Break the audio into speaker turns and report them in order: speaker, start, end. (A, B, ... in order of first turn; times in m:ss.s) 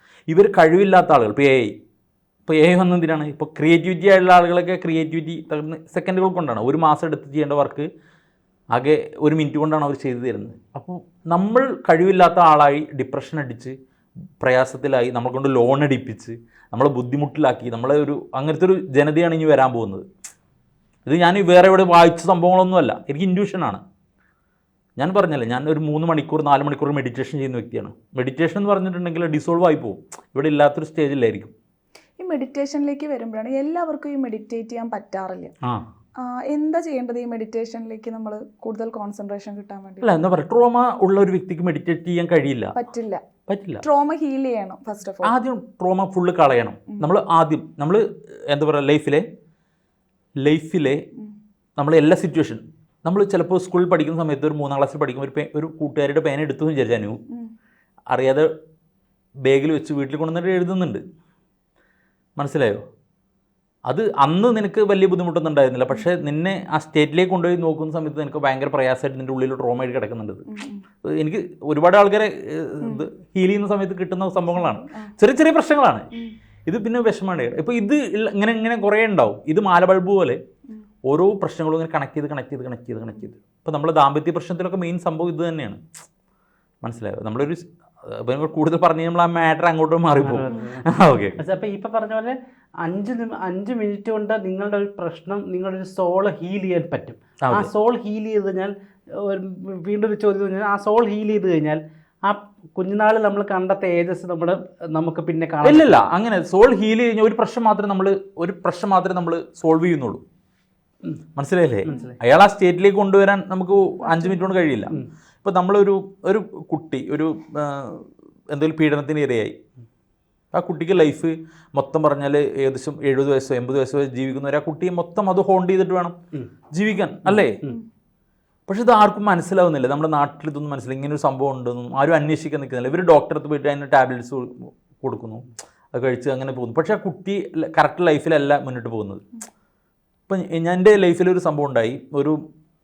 0:00.3-0:01.8 A
0:02.4-0:07.9 A
0:08.7-0:13.8 A
0:14.4-0:20.0 A
0:21.0-0:23.8 A
0:25.0-0:31.5 A
0:32.2-0:35.5 B
0:36.2-0:40.1 B
0:40.0-0:42.8 A
0:42.7-0:43.2 B
0:43.5-0:43.8 A
0:43.8-0:45.4 B
0:45.2-0:49.2 A
0:50.4-0:51.0 A
0:51.8-0:57.2 A
0:58.1-0:58.5 A
0:59.4-1:01.0 A
1:02.4-1:02.8 A
1:03.9-1:10.4 A
1:10.5-1:10.8 B
1:11.0-1:16.1 A
1:14.6-1:15.1 B
1:16.7-1:20.4 A
1:21.1-1:25.8 A
1:26.8-1:31.4 A
1:30.2-1:30.9 C
1:31.4-1:46.1 C
1:37.4-1:37.7 A
1:45.6-1:50.2 A
1:51.4-1:59.5 A
1:51.8-1:52.2 C
2:00.5-2:06.2 A
2:06.7-2:07.6 A
2:07.3-2:07.8 C
2:08.7-2:19.2 A
2:20.3-2:22.4 A